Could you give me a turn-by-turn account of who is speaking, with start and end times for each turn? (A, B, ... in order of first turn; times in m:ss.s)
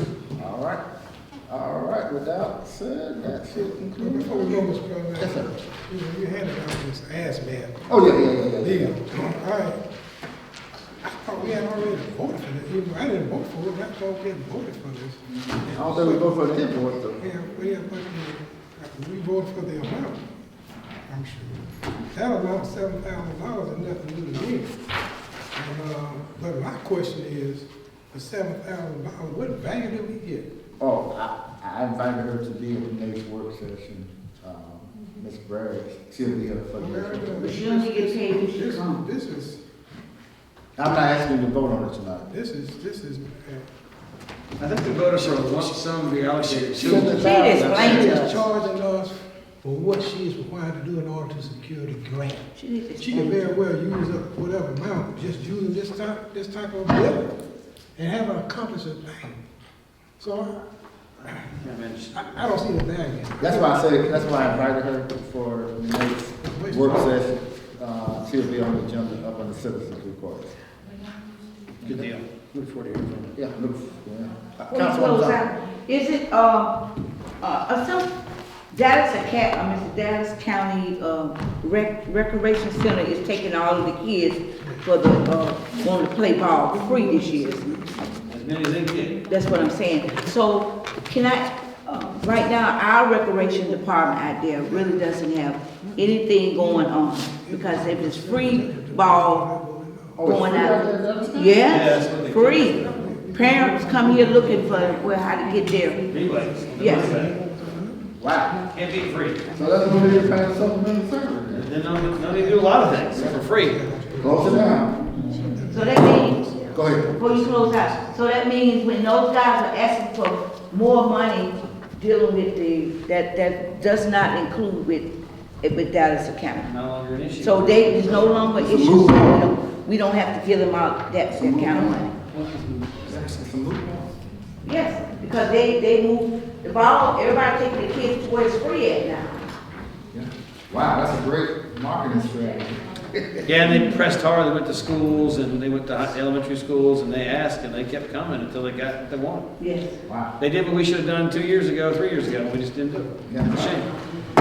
0:00.4-0:00.8 A
0:01.5-0:05.5 A
0:03.4-0:08.0 B
0:07.9-0:08.9 A
0:08.6-0:09.8 B
0:11.0-0:16.2 B
0:15.6-0:17.2 A
0:17.2-0:20.2 B
0:21.0-0:24.7 B
0:25.5-0:30.5 B
0:30.8-0:37.6 A
0:36.8-0:39.6 B
0:37.4-0:39.0 C
0:40.8-0:42.3 A
0:42.3-0:43.7 B
0:44.6-0:47.3 D
0:46.4-0:46.8 B
0:46.8-0:48.3 A
0:47.0-0:48.4 C
0:47.5-0:52.5 B
0:52.6-0:53.5 C
0:53.0-0:57.3 B
0:58.0-0:59.4 B
1:00.2-1:00.6 B
1:01.2-1:04.0 B
1:01.6-1:02.2 D
1:03.4-1:10.5 A
1:06.4-1:07.1 B
1:11.8-1:13.3 D
1:13.3-1:15.4 A
1:14.7-1:16.8 C
1:17.4-1:18.1 C
1:18.7-1:27.9 C
1:26.8-1:27.8 B
1:28.3-1:29.2 D
1:29.2-1:39.4 C
1:34.6-1:35.1 B
1:35.8-1:40.4 B
1:40.2-1:41.8 A
1:40.2-1:46.1 C
1:41.6-1:43.0 D
1:42.7-1:48.1 B
1:46.0-1:47.3 D
1:46.8-1:47.2 C
1:48.2-1:48.6 A
1:48.7-1:49.4 D
1:49.5-1:51.7 A
1:49.8-1:50.3 B
1:51.5-1:53.8 D
1:52.2-1:58.2 B
1:53.1-1:53.5 A
1:54.2-1:55.2 A
1:55.7-1:56.4 C
1:56.7-1:57.1 A
1:57.1-2:05.1 C
2:05.6-2:06.7 C
2:06.6-2:08.7 D
2:07.4-2:12.1 C
2:08.6-2:09.4 A
2:11.3-2:12.1 A
2:12.2-2:13.1 D
2:13.0-2:14.2 A
2:14.6-2:19.4 C
2:20.1-2:23.5 A
2:23.4-2:29.5 D
2:29.6-2:30.0 C
2:30.0-2:30.3 A
2:30.4-2:33.9 D
2:33.3-2:33.8 A